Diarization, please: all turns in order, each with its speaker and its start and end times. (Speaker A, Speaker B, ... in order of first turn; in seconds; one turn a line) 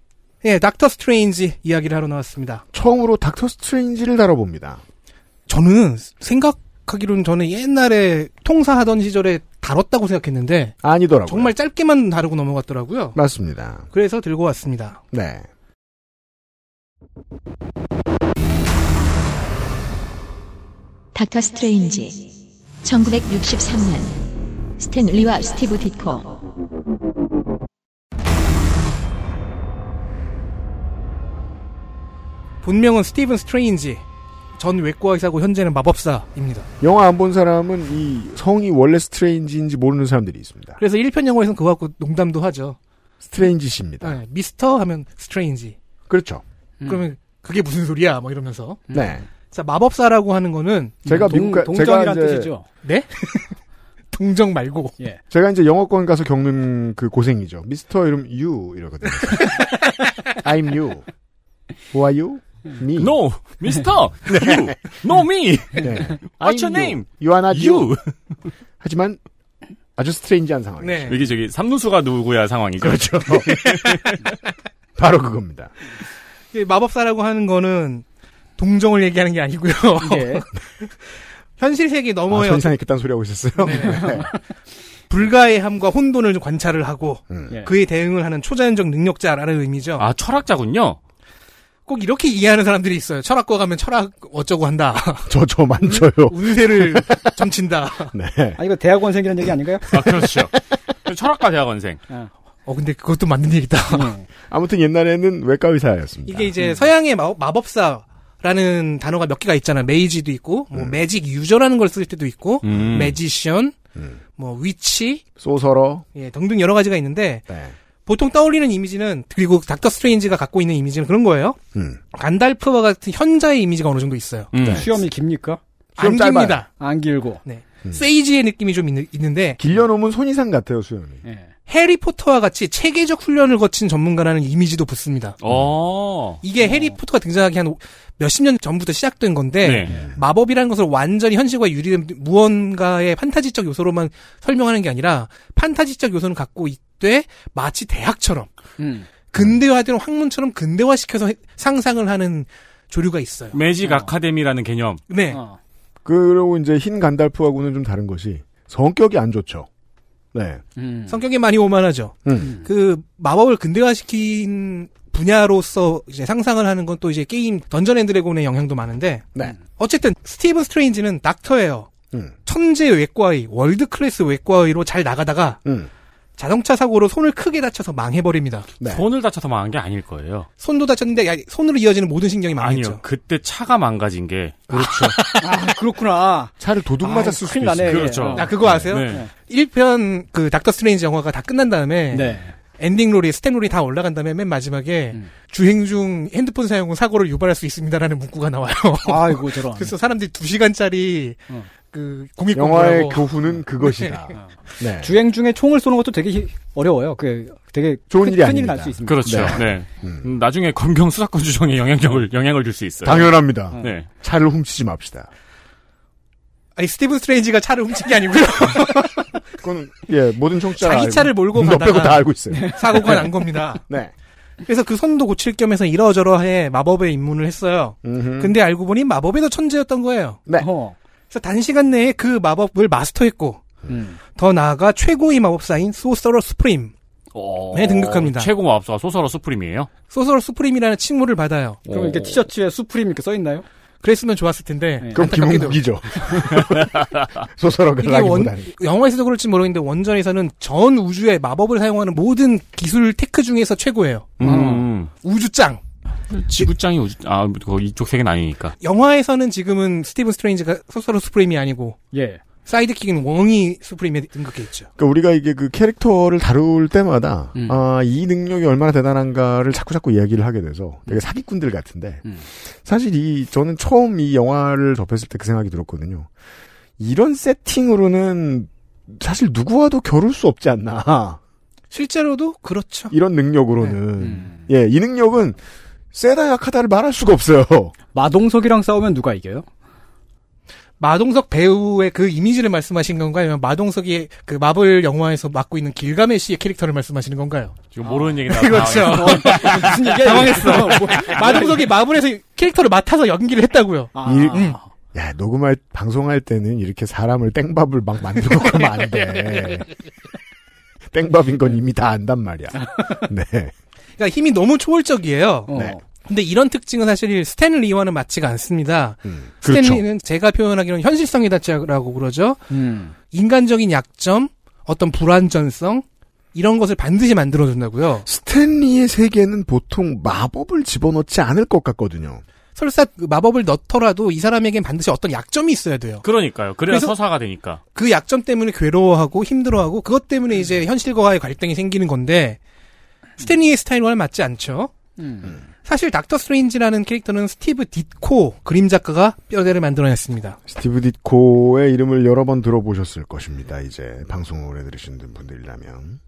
Speaker A: 0.4-2.6
Speaker B: 2.7-4.8
Speaker A: 5.5-10.8
Speaker B: 10.8-11.5
Speaker A: 11.3-13.2
Speaker B: 13.2-13.9
Speaker A: 13.9-15.0
Speaker B: 15.1-15.5
Speaker C: 21.1-22.3
Speaker C: 22.8-24.2
Speaker C: 24.8-26.4
Speaker A: 32.6-34.0
Speaker A: 34.6-36.7
Speaker B: 36.8-40.8
Speaker A: 40.8-42.8
Speaker B: 43.2-44.2
Speaker A: 44.0-45.8
Speaker B: 46.1-46.4
Speaker D: 46.8-47.1
Speaker A: 46.9-48.9
Speaker D: 48.9-49.2
Speaker B: 48.9-49.2
Speaker A: 49.5-51.1
Speaker B: 51.1-52.5
Speaker D: 51.1-52.7
Speaker A: 52.8-53.6
Speaker A: 54.1-55.0
Speaker B: 55.3-59.6
Speaker B: 60.3-61.1
Speaker B: 61.9-63.2
Speaker E: 63.0-68.1
Speaker B: 64.3-64.7
Speaker B: 65.8-68.0
Speaker B: 68.8-69.2
Speaker B: 70.0-71.2
Speaker A: 70.8-71.2
Speaker E: 71.1-74.2
Speaker B: 72.8-74.1
Speaker B: 75.0-75.7
Speaker A: 76.5-78.0
Speaker A: 78.6-80.9
Speaker D: 80.0-80.4
Speaker A: 81.6-82.7
Speaker B: 82.3-84.3
Speaker A: 83.7-84.2
Speaker D: 83.8-84.2
Speaker A: 85.1-90.1
Speaker E: 90.0-91.0
Speaker A: 91.9-95.3
Speaker B: 95.3-97.3
Speaker A: 95.9-98.1
Speaker B: 98.1-98.6
Speaker D: 98.6-100.0
Speaker E: 99.9-100.5
Speaker B: 99.9-100.4
Speaker E: 101.1-102.0
Speaker A: 102.7-104.1
Speaker D: 103.9-104.3
Speaker B: 104.5-106.6
Speaker A: 106.3-113.8
Speaker D: 106.6-106.9
Speaker E: 112.6-113.2
Speaker A: 114.4-115.2
Speaker B: 115.4-116.1
Speaker A: 116.2-117.5
Speaker B: 117.5-117.8
Speaker A: 118.1-121.6
Speaker B: 121.8-122.0
Speaker A: 122.1-124.5
Speaker E: 124.5-124.9
Speaker B: 124.6-124.9
Speaker D: 124.6-125.6
Speaker B: 126.0-126.6
Speaker A: 126.0-126.7
Speaker D: 126.8-127.4
Speaker A: 127.5-129.6
Speaker B: 129.6-131.2
Speaker D: 131.2-131.5
Speaker A: 131.7-135.4
Speaker E: 135.4-136.4
Speaker A: 136.4-148.5
Speaker D: 136.6-136.9
Speaker E: 139.6-139.9
Speaker B: 139.9-140.2
Speaker D: 148.8-149.1
Speaker A: 149.3-153.6
Speaker E: 153.5-155.0
Speaker D: 153.8-154.1
Speaker A: 155.1-155.4
Speaker D: 155.3-155.6
Speaker B: 156.1-159.7
Speaker B: 160.3-160.6
Speaker D: 160.8-161.2
Speaker A: 161.1-171.9
Speaker B: 162.2-162.5
Speaker D: 162.4-162.7
Speaker A: 172.5-175.6
Speaker B: 175.7-175.9
Speaker A: 176.4-178.7
Speaker E: 178.8-180.5
Speaker A: 180.6-183.0
Speaker E: 182.6-185.2
Speaker B: 184.7-185.2
Speaker D: 185.4-189.3
Speaker B: 186.6-188.9
Speaker E: 187.9-189.2
Speaker A: 188.4-204.3
Speaker D: 192.1-192.5
Speaker D: 199.0-199.9
Speaker B: 202.5-205.1
Speaker D: 204.3-209.6
Speaker B: 208.1-210.3
Speaker E: 209.1-214.1
Speaker B: 213.0-215.3
Speaker A: 216.8-219.3
Speaker B: 219.6-223.3
Speaker A: 220.8-223.8
Speaker D: 222.5-223.1
Speaker A: 224.6-230.4
Speaker B: 228.0-228.6
Speaker D: 230.6-231.0
Speaker A: 231.3-233.6
Speaker D: 233.9-234.2
Speaker A: 234.3-236.9
Speaker E: 237.3-239.9
Speaker A: 237.7-238.5
Speaker A: 240.1-241.8
Speaker E: 241.9-242.4
Speaker D: 241.9-243.7
Speaker A: 244.0-245.8
Speaker B: 245.1-247.0
Speaker E: 246.6-247.3
Speaker B: 247.6-248.7
Speaker A: 248.0-254.6
Speaker E: 254.4-255.1
Speaker D: 254.4-254.9
Speaker A: 255.2-255.8
Speaker E: 256.3-258.7
Speaker A: 258.8-262.0
Speaker D: 262.1-262.4
Speaker A: 262.7-264.9
Speaker B: 265.0-276.3
Speaker D: 267.6-267.8
Speaker B: 277.0-281.4
Speaker A: 281.9-283.1
Speaker B: 283.1-285.6
Speaker D: 284.2-284.6
Speaker B: 286.1-287.9
Speaker D: 288.1-289.7
Speaker A: 291.0-297.8
Speaker E: 297.9-301.4
Speaker D: 298.1-298.3
Speaker A: 298.5-304.8
Speaker D: 298.9-301.9
Speaker D: 304.1-304.9
Speaker B: 304.2-309.9
Speaker B: 311.1-313.7
Speaker A: 314.2-322.6
Speaker D: 315.7-316.0
Speaker B: 315.7-316.0
Speaker B: 319.2-320.0
Speaker D: 322.7-323.1
Speaker A: 323.3-328.3
Speaker B: 328.3-332.4
Speaker A: 332.8-336.2
Speaker E: 336.2-337.8
Speaker A: 336.9-337.1
Speaker A: 337.9-342.6
Speaker A: 343.4-344.9
Speaker D: 345.2-345.6
Speaker A: 345.9-350.6
Speaker B: 350.7-356.2